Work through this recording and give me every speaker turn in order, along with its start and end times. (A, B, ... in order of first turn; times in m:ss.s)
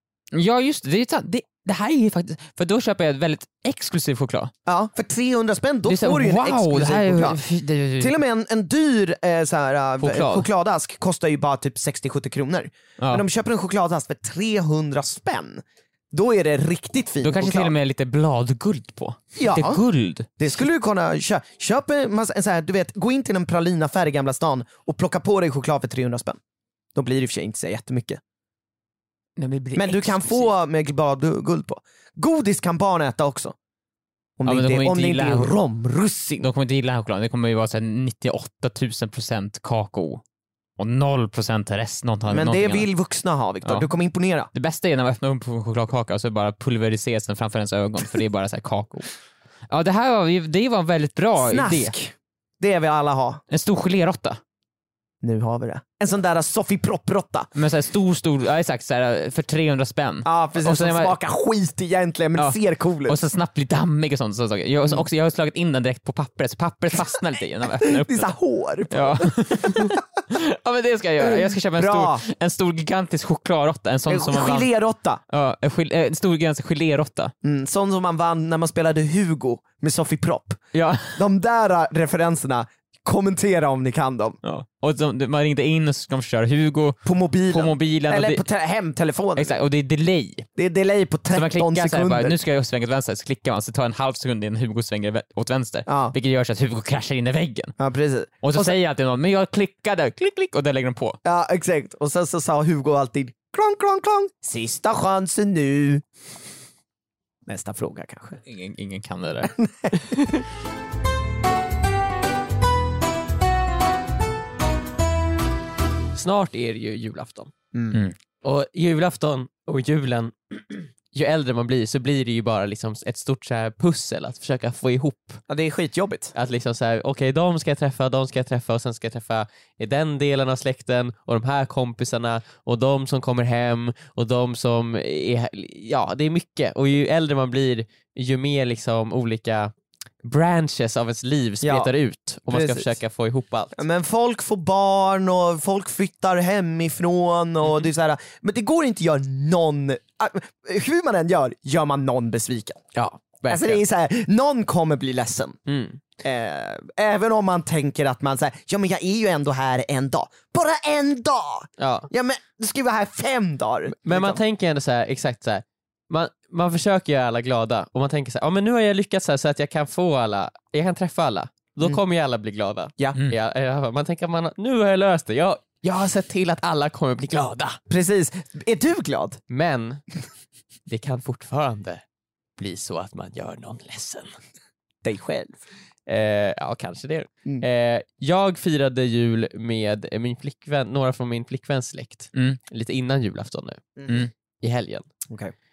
0:00.3-0:04.5 A
0:04.7-0:07.4 B
0:05.9-0:08.2 A
0:08.0-0:17.7 B
0:10.0-0:10.4 A
0:13.0-0:13.2 A
0:17.2-0:20.6 A
0:19.4-0:19.8 B
0:20.4-0:26.4 B
0:27.0-0:28.2 B
0:29.4-0:30.5 A
0:29.8-0:33.6 B
0:34.4-0:36.5 B
0:34.5-0:35.6 A
0:36.4-0:40.2 A
0:40.8-0:42.9 A
0:42.3-0:44.5 B
0:43.6-0:43.9 A
0:44.5-0:49.1 A
0:49.7-0:51.9 A
0:51.4-0:53.4 B
0:53.5-0:54.4 A
0:55.2-0:57.5 B
0:57.6-1:01.2 A
1:00.2-1:03.2 B
1:02.4-1:08.4 A
1:07.8-1:10.0 B
1:08.9-1:14.7 A
1:11.2-1:12.2 B
1:14.1-1:15.2 B
1:15.3-1:17.3 A
1:17.4-1:20.6 B
1:20.7-1:21.2 A
1:21.1-1:24.4 B
1:24.4-1:28.4 A
1:27.0-1:29.6 B
1:29.4-1:30.5 A
1:30.6-1:32.4 B
1:31.3-1:37.7 A
1:35.9-1:36.2 B
1:37.8-1:38.8 B
1:38.4-1:41.2 A
1:41.2-1:46.0 B
1:47.5-1:48.4 B
1:48.4-1:49.5 A
1:49.5-1:50.2 B
1:56.2-1:57.5 C
1:57.7-1:58.0 B
1:58.4-2:05.4 C
2:05.5-2:06.3 B
2:06.4-2:19.7 C
2:20.2-2:23.8 C
2:21.6-2:21.9 B
2:22.5-2:22.9 B
2:23.8-2:32.8 B
2:33.0-2:33.8 C
2:33.5-2:35.6 B
2:35.7-2:36.0 C
2:36.2-2:44.4 B
2:41.8-2:42.1 C
2:44.0-2:57.8 C
2:57.9-2:59.4 B
2:59.5-3:00.0 C
3:00.9-3:02.0 C
3:02.6-3:04.3 C
3:05.0-3:05.6 B
3:06.1-3:14.0 C
3:14.6-3:15.1 C